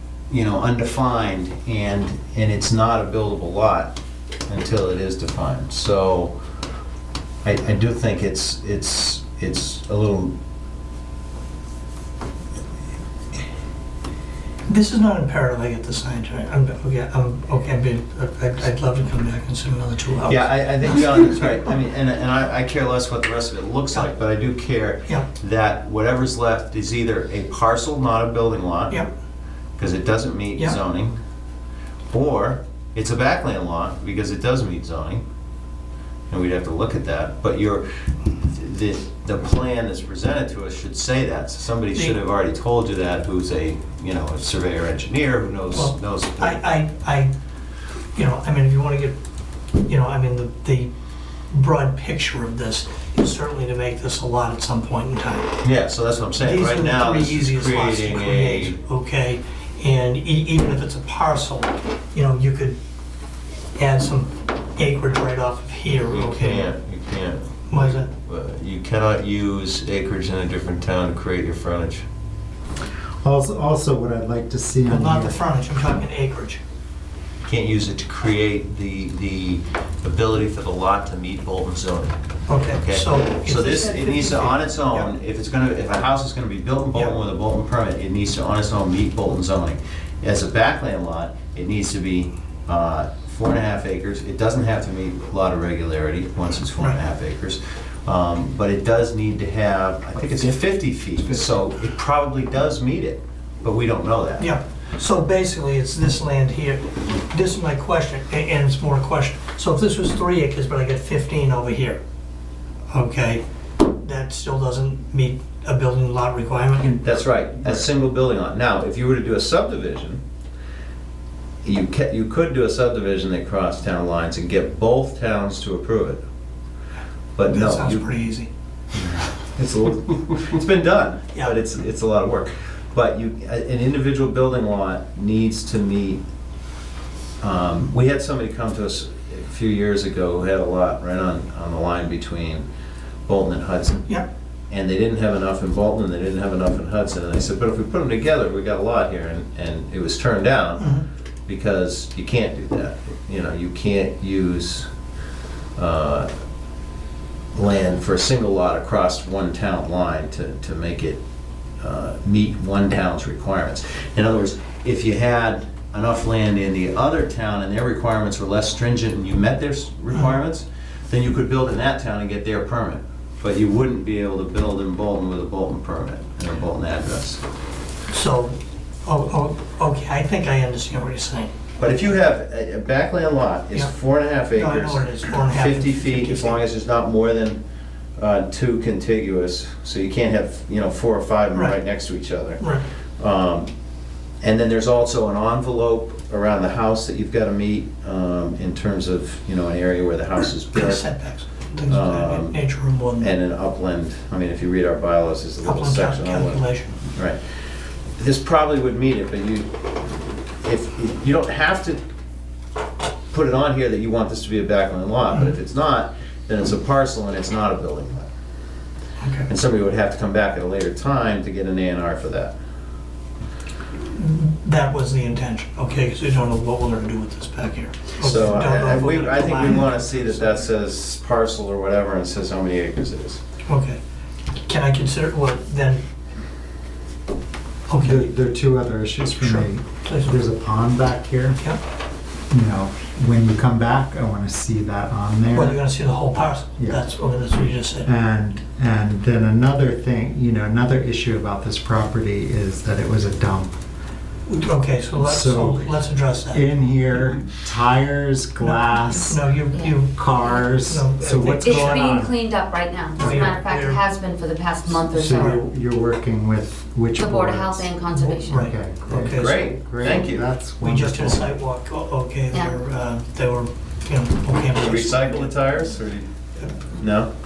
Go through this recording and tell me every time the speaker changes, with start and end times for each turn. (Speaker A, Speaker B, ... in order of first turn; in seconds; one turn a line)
Speaker A: 0.3-4.0
Speaker A: 4.5-6.3
Speaker A: 7.4-10.3
Speaker B: 14.7-21.6
Speaker A: 20.3-29.1
Speaker A: 29.8-31.2
Speaker A: 32.1-35.2
Speaker A: 36.3-37.8
Speaker A: 38.4-46.6
Speaker B: 45.7-47.3
Speaker B: 48.1-49.2
Speaker B: 49.8-50.9
Speaker B: 51.5-55.6
Speaker A: 55.6-58.8
Speaker B: 56.4-62.8
Speaker B: 63.8-66.7
Speaker A: 66.0-72.1
Speaker B: 67.7-68.1
Speaker C: 73.2-75.4
Speaker B: 74.9-76.6
Speaker A: 77.5-82.2
Speaker B: 82.5-85.1
Speaker A: 82.7-104.5
Speaker B: 104.4-112.0
Speaker B: 112.9-117.1
Speaker A: 117.0-120.2
Speaker A: 121.6-126.2
Speaker A: 127.4-128.1
Speaker B: 127.5-128.5
Speaker A: 129.0-136.2
Speaker A: 137.4-142.7
Speaker A: 143.3-144.1
Speaker A: 144.7-150.9
Speaker B: 150.8-151.0
Speaker A: 151.5-154.9
Speaker A: 155.8-156.3
Speaker A: 157.6-161.2
Speaker A: 161.8-177.4
Speaker B: 178.1-181.5
Speaker A: 181.8-187.6
Speaker B: 184.5-186.6
Speaker A: 188.2-192.6
Speaker B: 192.6-192.8
Speaker A: 193.2-193.7
Speaker A: 194.4-201.1
Speaker B: 200.7-203.3
Speaker A: 201.9-202.6
Speaker A: 203.2-207.6
Speaker B: 205.6-206.9
Speaker A: 208.2-209.7
Speaker A: 210.6-212.0
Speaker A: 213.3-218.3
Speaker B: 219.2-219.5
Speaker A: 219.5-222.5
Speaker B: 224.0-230.6
Speaker A: 228.2-233.4
Speaker B: 233.7-234.0
Speaker B: 234.7-236.0
Speaker B: 237.9-238.3
Speaker C: 238.0-241.6
Speaker B: 239.4-240.4
Speaker C: 242.5-245.8
Speaker B: 245.5-248.1
Speaker C: 246.8-247.0
Speaker C: 248.1-253.7
Speaker B: 254.5-256.7
Speaker C: 255.2-255.9
Speaker C: 256.5-262.4
Speaker B: 258.6-262.2
Speaker D: 259.7-260.0
Speaker D: 261.6-265.6
Speaker B: 263.2-264.0
Speaker C: 263.2-263.5
Speaker C: 265.1-267.9
Speaker B: 265.3-265.6
Speaker D: 267.2-268.7
Speaker B: 268.1-269.7
Speaker C: 268.5-271.5
Speaker A: 269.2-270.5
Speaker B: 270.8-275.5
Speaker A: 274.8-276.3
Speaker A: 276.9-277.3